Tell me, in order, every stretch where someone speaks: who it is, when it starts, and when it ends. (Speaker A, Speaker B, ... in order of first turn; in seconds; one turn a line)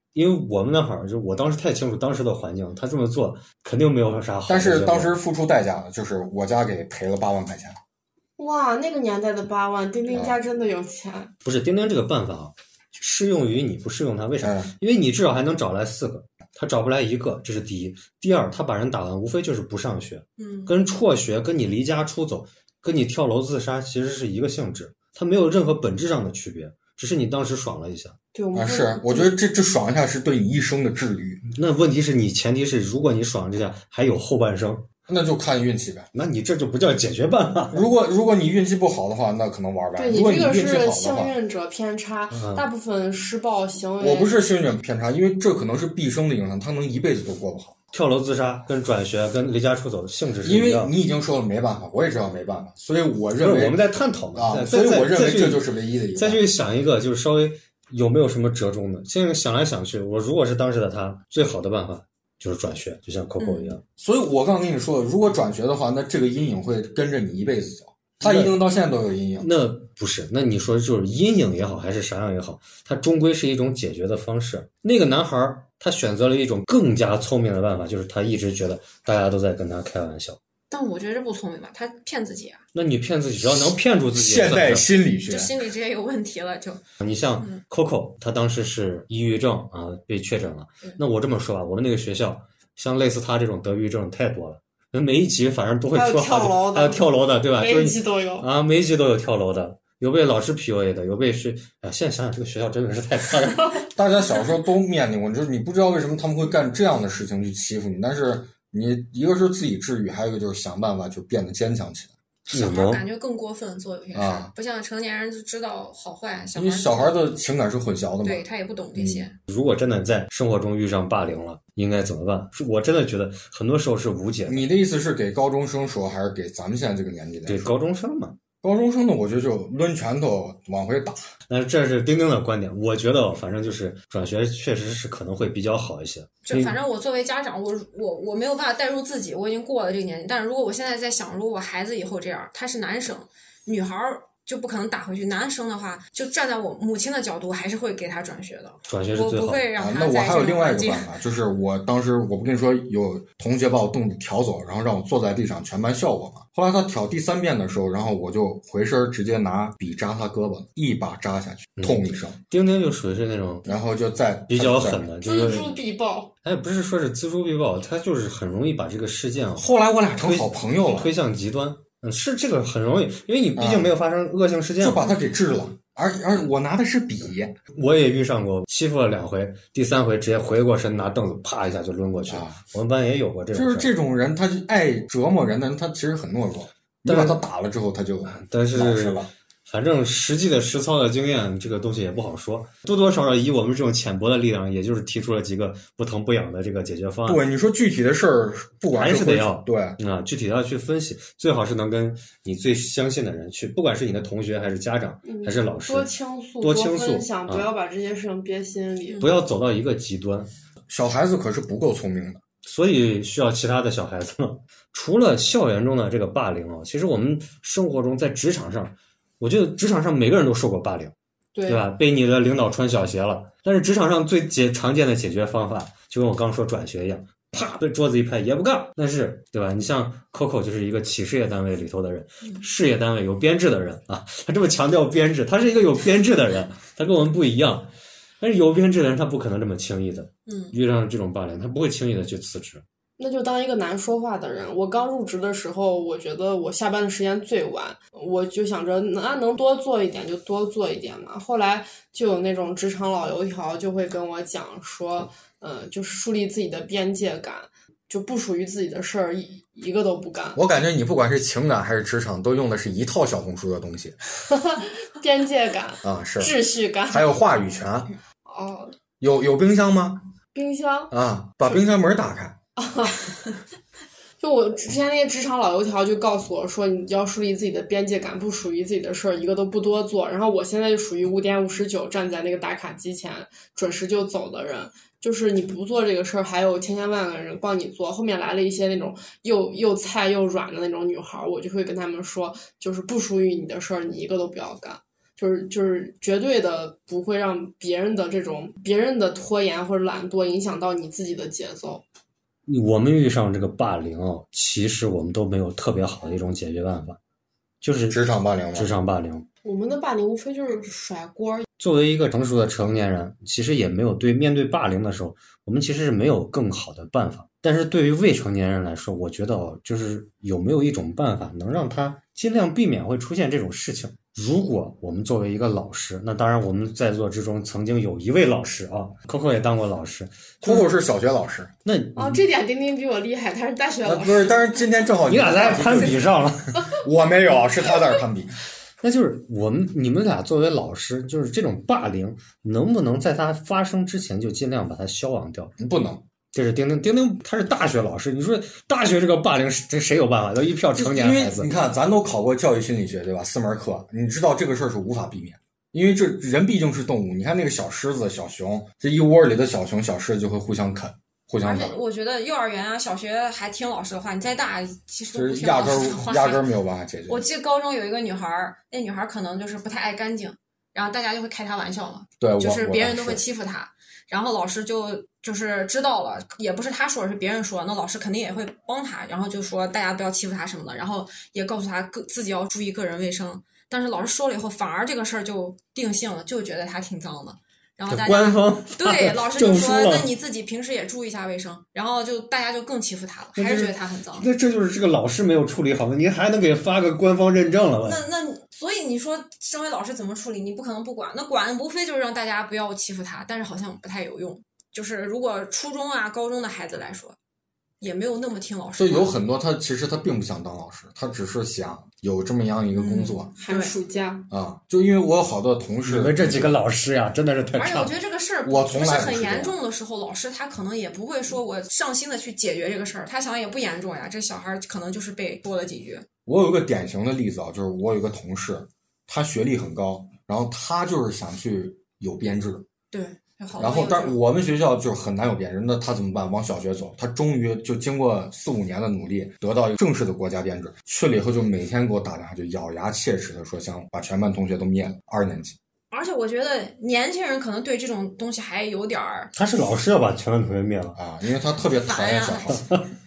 Speaker A: 0.1-5.1
Speaker B: 4.5-7.8
Speaker C: 8.4-11.3
Speaker B: 10.1-10.4
Speaker A: 11.4-28.2
Speaker B: 14.4-14.7
Speaker D: 20.4-20.7
Speaker C: 28.3-29.3
Speaker B: 28.5-31.4
Speaker A: 31.5-34.9
Speaker B: 35.1-36.1
Speaker A: 36.1-37.9
Speaker B: 37.7-41.3
Speaker C: 40.0-44.4
Speaker A: 42.3-42.7
Speaker B: 44.0-47.8
Speaker A: 47.9-50.9
Speaker B: 50.4-53.8
Speaker A: 53.4-63.8
Speaker B: 54.4-56.4
Speaker D: 63.4-63.8
Speaker B: 64.0-69.5
Speaker A: 68.2-68.5
Speaker A: 69.4-80.4
Speaker D: 80.7-82.6
Speaker A: 82.7-84.9
Speaker B: 84.1-85.5
Speaker D: 85.3-86.8
Speaker A: 87.0-103.8
Speaker C: 95.9-98.5
Speaker B: 103.9-112.1
Speaker D: 112.5-117.2
Speaker A: 112.5-113.0
Speaker B: 114.1-114.5
Speaker B: 116.5-118.4
Speaker D: 118.2-119.4
Speaker B: 119.0-119.3
Speaker A: 119.5-124.7
Speaker B: 124.5-127.7
Speaker A: 127.5-128.4
Speaker B: 128.6-131.3
Speaker A: 131.5-136.8
Speaker D: 136.5-151.1
Speaker A: 148.9-149.7
Speaker B: 149.8-162.4
Speaker A: 161.8-163.7
Speaker B: 163.7-165.1
Speaker A: 164.5-165.8
Speaker C: 165.2-166.3
Speaker A: 166.4-169.7
Speaker B: 169.6-171.1
Speaker A: 170.2-175.0
Speaker B: 173.6-173.9
Speaker B: 174.8-177.6
Speaker A: 177.7-183.9
Speaker B: 182.3-182.6
Speaker B: 183.5-189.3
Speaker A: 187.1-187.4
Speaker A: 188.3-197.4
Speaker B: 197.3-200.0
Speaker A: 198.9-207.7
Speaker C: 205.2-209.3
Speaker D: 209.1-209.3
Speaker A: 209.2-210.5
Speaker B: 210.9-212.4
Speaker A: 212.6-221.1
Speaker C: 221.6-221.8
Speaker A: 221.7-242.8
Speaker D: 240.5-240.8
Speaker C: 243.2-260.6
Speaker B: 260.6-264.2
Speaker C: 264.5-267.3
Speaker B: 266.0-266.5
Speaker B: 267.1-268.1
Speaker C: 268.5-268.9
Speaker B: 269.2-270.3
Speaker C: 270.5-271.1
Speaker B: 271.1-272.6
Speaker C: 272.8-273.2
Speaker C: 274.4-302.0
Speaker A: 302.7-307.2
Speaker A: 307.8-308.2
Speaker B: 308.1-308.9
Speaker A: 308.8-309.5
Speaker C: 309.6-311.7
Speaker A: 311.8-330.9
Speaker B: 330.6-331.7
Speaker A: 331.9-332.4
Speaker C: 332.2-334.8
Speaker B: 334.0-336.3
Speaker A: 335.3-336.8
Speaker B: 336.9-338.5
Speaker A: 339.0-345.7
Speaker B: 345.8-346.2
Speaker A: 346.5-351.7
Speaker B: 350.9-361.9
Speaker D: 361.6-366.7
Speaker B: 365.3-367.4
Speaker D: 367.3-394.5
Speaker B: 372.4-373.4
Speaker A: 388.1-390.3
Speaker A: 393.6-398.2
Speaker D: 398.0-407.4
Speaker D: 408.0-409.3
Speaker B: 409.0-413.5
Speaker D: 412.9-413.9
Speaker C: 413.6-414.5
Speaker B: 414.5-416.7
Speaker A: 416.1-418.1
Speaker D: 417.8-426.2
Speaker B: 418.6-419.8
Speaker B: 426.5-432.9
Speaker D: 433.1-434.4
Speaker B: 433.8-445.8
Speaker D: 446.1-449.5
Speaker A: 449.6-451.2
Speaker B: 451.2-452.8
Speaker D: 452.1-452.8